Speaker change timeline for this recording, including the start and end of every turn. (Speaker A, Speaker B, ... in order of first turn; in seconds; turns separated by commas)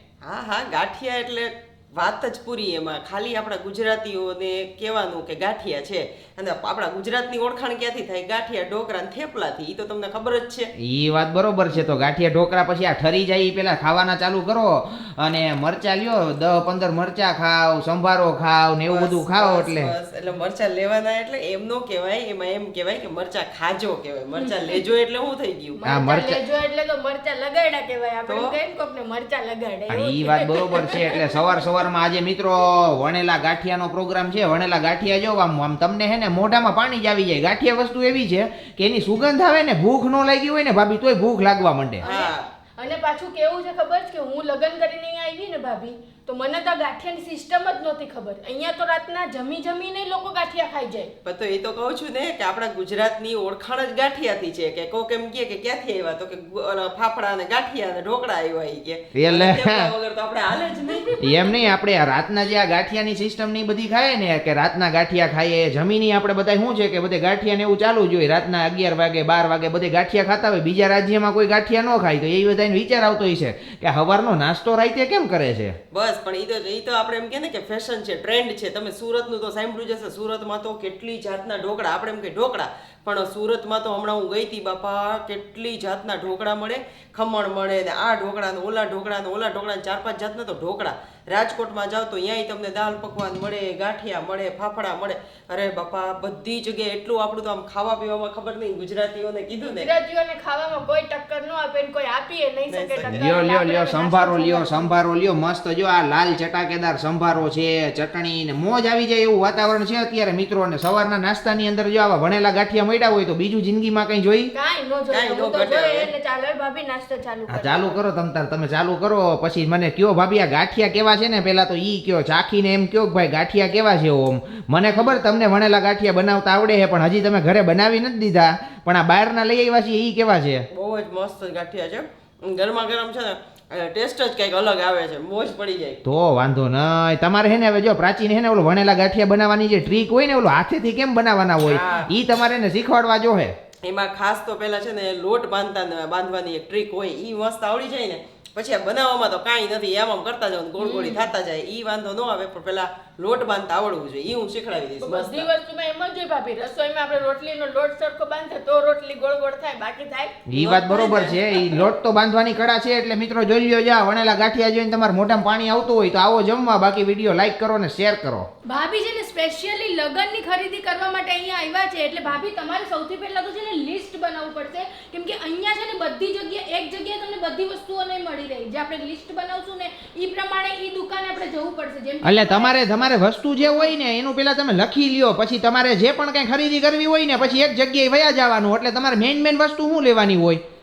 Speaker A: 0.2-10.7, Speaker B: 10.8-19.9, Speaker A: 18.9-25.8, Speaker C: 25.8-31.6, Speaker B: 25.9-26.4, Speaker A: 28.3-28.5, Speaker B: 29.9-42.0, Speaker A: 42.0-42.5, Speaker C: 42.0-51.1, Speaker A: 51.2-61.1, Speaker B: 59.1-59.9, Speaker C: 60.9-61.8, Speaker B: 61.2-75.7, Speaker A: 75.9-99.9, Speaker C: 99.6-104.9, Speaker A: 102.7-103.2, Speaker B: 103.1-114.5, Speaker C: 114.5-117.9, Speaker A: 115.1-116.1, Speaker B: 117.5-130.7, Speaker A: 124.8-125.2, Speaker A: 130.7-136.0, Speaker B: 136.0-143.5, Speaker A: 141.6-142.1, Speaker A: 143.8-155.5, Speaker C: 150.8-151.2, Speaker C: 155.0-160.4, Speaker B: 160.5-168.4, Speaker A: 160.5-161.7, Speaker C: 168.7-182.8, Speaker B: 182.2-190.6, Speaker C: 183.6-183.9, Speaker A: 187.3-187.7